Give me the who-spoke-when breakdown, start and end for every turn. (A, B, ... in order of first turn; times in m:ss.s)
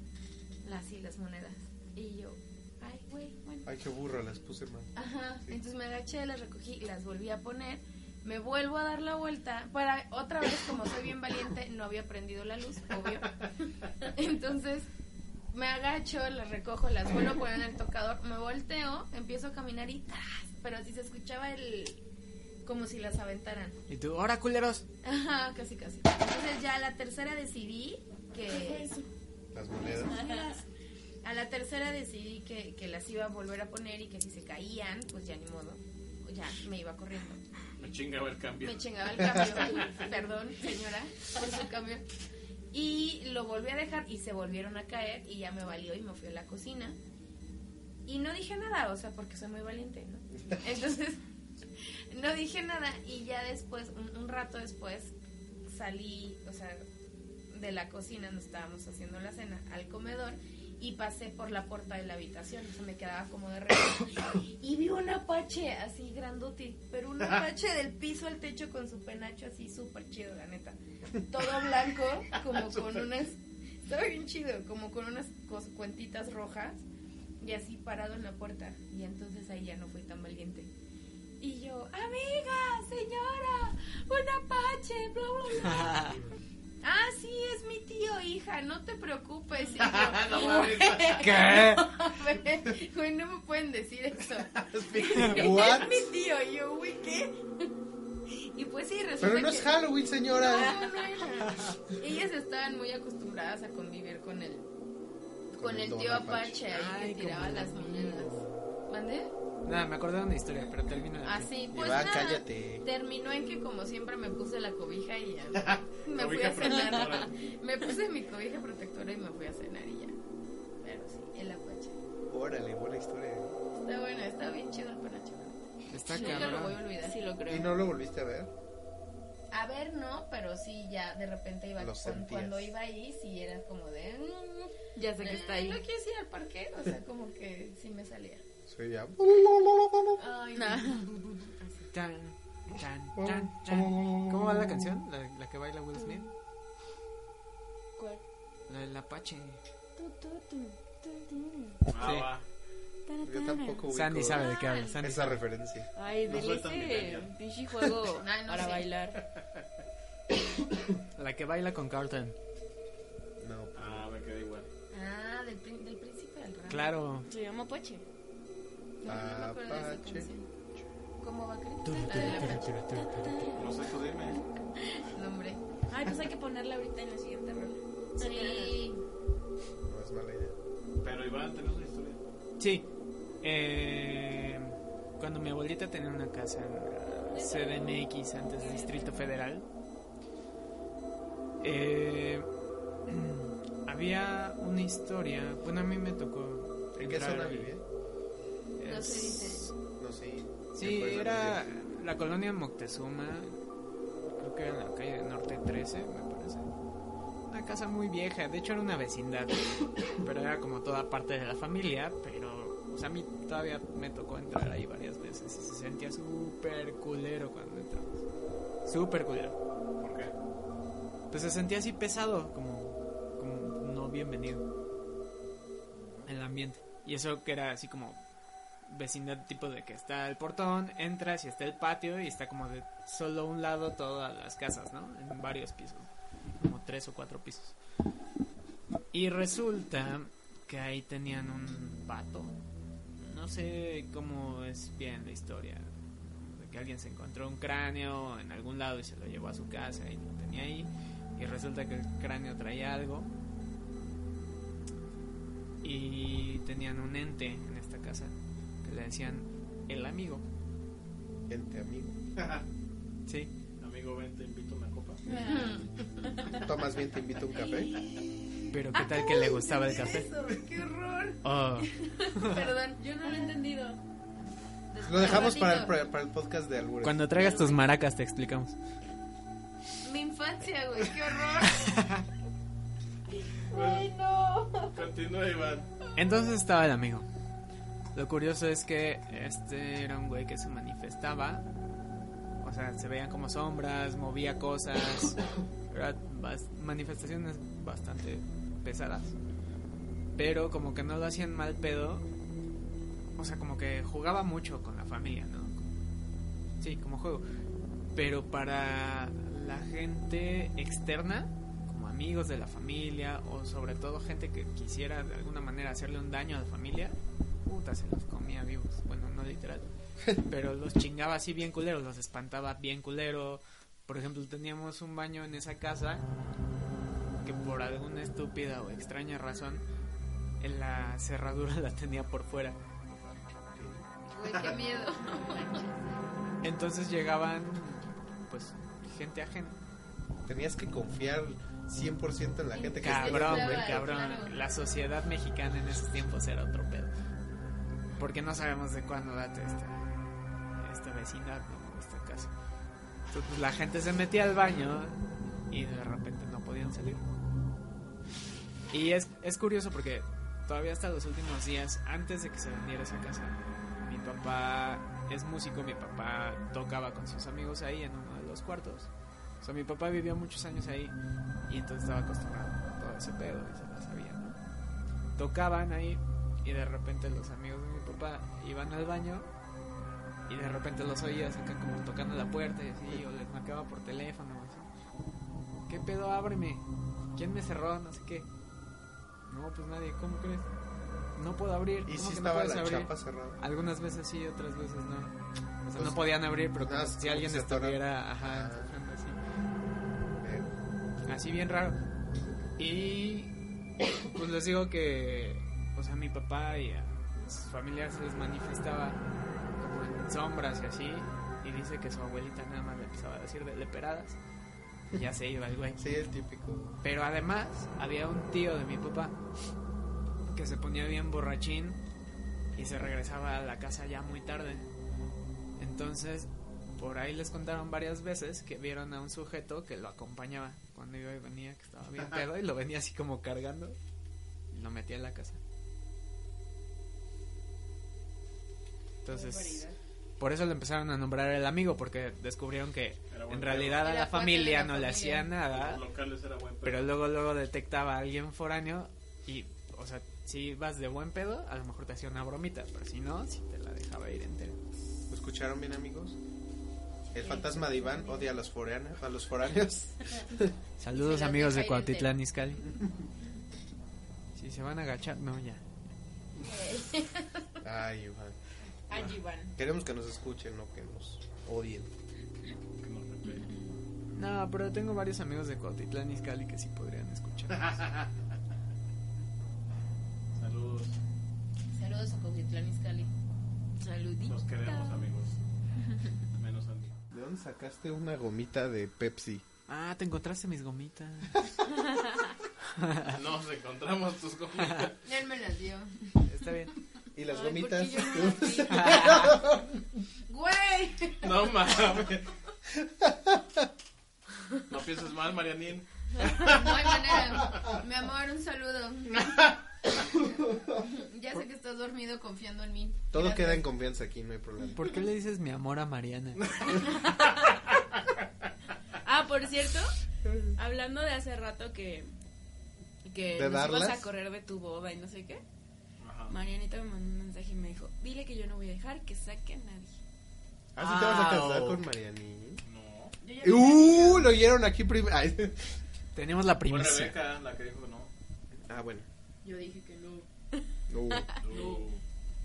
0:00.6-0:03.7 A
0:03.6-0:04.9 B
0:05.0-0:13.5 A
0:14.0-0:14.9 A
0:15.5-0:22.0 A
0:22.6-0:23.8 A
0:23.9-0:24.8 C
0:25.0-0:28.9 A
0:28.5-0:29.1 D
0:29.5-0:30.2 B
0:30.0-0:30.6 A
0:30.0-0:30.6 D
0:31.2-0:37.4 A
0:37.8-0:39.9 E
0:38.6-0:42.0 A
0:39.8-0:40.1 D
0:42.7-0:47.0 A
0:48.0-0:51.2 A
0:52.1-0:55.1 A
0:55.7-0:56.9 A
0:57.5-1:16.8 A
1:12.6-1:13.0 E
1:17.4-1:20.7 A
1:21.4-1:26.1 A
1:25.7-1:26.2 C
1:26.8-1:37.4 A
1:29.8-1:31.2 E
1:31.2-1:31.9 C
1:34.5-1:35.2 E
1:34.9-1:36.0 D
1:35.1-1:35.4 C
1:35.2-1:36.0 B
1:38.4-1:44.7 A
1:39.2-1:40.8 B
1:40.6-1:41.1 D
1:45.5-1:49.3 A
1:45.5-1:46.6 B
1:46.7-1:48.6 C
1:49.6-1:51.5 C
1:51.2-2:00.1 A
1:51.7-1:52.8 B
1:56.0-1:57.3 E
2:00.8-2:02.0 A
2:02.3-2:03.6 B
2:03.8-2:07.2 A
2:05.9-2:06.8 C
2:06.1-2:07.7 D
2:07.5-2:08.5 B
2:09.5-2:18.4 A
2:11.8-2:12.7 B
2:14.9-2:15.8 D
2:18.7-2:20.2 B
2:20.2-2:21.9 A
2:20.5-2:21.1 D
2:21.9-2:26.3 C
2:23.2-2:25.0 B
2:28.0-2:28.2 D
2:28.7-2:29.6 C
2:30.0-2:31.8 D
2:31.9-2:32.4 E
2:32.0-2:32.3 C
2:33.0-2:34.9 D
2:33.2-2:34.5 B
2:33.9-2:35.4 C
2:35.0-2:35.9 B
2:35.9-2:39.2 D
2:36.2-2:37.3 E
2:38.1-2:38.9 A
2:41.2-2:42.4 C
2:43.4-2:44.1 B
2:43.7-2:44.7 E
2:44.9-2:47.0 A
2:46.7-2:47.3 C
2:47.2-2:48.0 D
2:49.0-2:50.5 A
2:49.0-2:50.3 B
2:51.2-2:52.8 A
2:51.8-2:53.6 C
2:52.0-2:53.7 D
2:53.5-2:54.4 E
2:55.0-2:55.6 A
2:55.9-2:58.8 D
2:58.2-2:59.0 A
2:59.8-3:00.5 B
3:01.0-3:02.2 E
3:02.6-3:02.9 C
3:03.4-3:09.7 C
3:07.0-3:09.4 D
3:11.6-3:12.5 C
3:13.1-3:17.8 C
3:17.0-3:17.8 B
3:18.8-3:19.7 C
3:18.8-3:19.7 A
3:20.0-3:21.6 B
3:20.7-3:23.6 C
3:24.2-3:26.7 C
3:27.5-3:38.2 C
3:38.8-3:39.6 C
3:40.0-3:40.3 E
3:41.3-3:44.6 C
3:45.9-3:46.3 E
3:46.2-3:48.2 C
3:48.8-3:56.1 C
3:56.6-3:57.7 C
3:59.1-4:02.6 C
4:03.2-4:13.3 C
4:15.8-4:20.4 C
4:21.5-4:22.2 B
4:22.4-4:22.6 E
4:23.8-4:25.2 E
4:25.2-4:26.6 D
4:25.3-4:26.1 A
4:26.6-4:27.9 B
4:28.7-4:30.3 C
4:28.9-4:31.4 A
4:31.4-4:32.6 C
4:32.0-4:33.6 A
4:33.0-4:34.0 D
4:34.9-4:36.0 A
4:35.0-4:37.3 B
4:37.0-4:38.7 C
4:40.0-4:42.1 A
4:41.9-4:42.2 C
4:43.7-4:44.1 E
4:43.7-4:44.9 D
4:43.7-4:44.0 A
4:44.9-4:45.9 E
4:46.1-4:47.3 C
4:48.1-4:51.6 C
4:52.6-4:59.3 C
5:00.4-5:02.3 C
5:03.4-5:05.8 C
5:06.8-5:07.4 C
5:08.1-5:26.2 C
5:27.4-5:29.8 C
5:30.6-5:32.8 C
5:33.7-5:34.8 B
5:34.3-5:36.2 A
5:36.6-5:39.8 C
5:40.4-5:44.1 B
5:42.7-5:44.6 A
5:43.0-5:47.1 C
5:48.2-5:50.1 C
5:50.8-5:52.5 C
5:53.3-5:57.2 C
5:58.9-6:09.1 C
6:09.6-6:11.1 C
6:11.7-6:14.6 C
6:15.4-6:19.5 C
6:20.5-6:24.9 C
6:25.9-6:26.8 C
6:27.3-6:28.5 C
6:29.5-6:30.7 C
6:31.4-6:35.3 C
6:32.0-6:33.6 B
6:35.8-6:39.4 C
6:35.9-6:38.9 B
6:40.4-6:40.7 B
6:41.3-6:42.0 C
6:42.8-6:43.5 C
6:44.2-6:49.2 C
6:49.8-6:54.4 C
6:55.1-6:56.0 C
6:56.0-6:57.0 B
6:57.0-6:59.4 C
7:00.4-7:02.0 C
7:02.8-7:04.8 C
7:05.8-7:14.0 C
7:14.7-7:15.6 C
7:19.2-7:19.8 C
7:19.3-7:20.0 A
7:20.4-7:26.0 C
7:23.3-7:24.0 E
7:24.0-7:25.5 A
7:25.7-7:27.1 E
7:26.8-7:34.8 C
7:35.3-7:36.4 B
7:37.3-7:40.7 B
7:37.3-7:38.5 A
7:41.0-7:42.9 C
7:41.2-7:42.3 A
7:44.6-7:45.8 C
7:46.6-7:47.7 A
7:47.8-7:48.6 B
7:49.1-7:49.7 D
7:49.8-7:52.1 B
7:53.0-7:53.7 E
7:54.3-7:58.0 C
8:00.5-8:01.2 E
8:01.9-8:03.3 A
8:04.0-8:05.3 D
8:04.5-8:05.5 E
8:06.0-8:06.3 D
8:06.6-8:07.1 E
8:07.3-8:09.6 B
8:09.9-8:11.7 C
8:12.1-8:12.5 D
8:12.9-8:13.3 C
8:13.2-8:15.2 E
8:15.2-8:16.4 A
8:16.4-8:16.9 C
8:17.3-8:19.8 B
8:17.5-8:19.2 D
8:18.4-8:18.7 A
8:18.9-8:19.5 C
8:20.5-8:22.0 A
8:21.4-8:22.5 E
8:23.2-8:23.7 B
8:24.9-8:26.8 E
8:26.5-8:29.6 A
8:30.3-8:33.8 A
8:33.3-8:35.1 B
8:34.9-8:36.7 C
8:37.0-8:37.7 D
8:39.2-8:40.1 D
8:40.8-8:42.3 D
8:43.2-8:45.6 D
8:43.5-8:44.3 B
8:46.2-8:46.5 E
8:46.5-8:50.2 D
8:50.9-8:52.8 B
8:51.0-8:52.0 C
8:52.8-8:53.4 E
8:53.4-8:54.5 A
8:53.6-8:56.0 B
8:56.3-8:57.4 C
8:56.9-8:58.3 E
8:58.8-8:59.2 B
8:59.6-9:00.4 A
9:01.1-9:01.5 B
9:01.4-9:02.0 D
9:01.6-9:02.2 E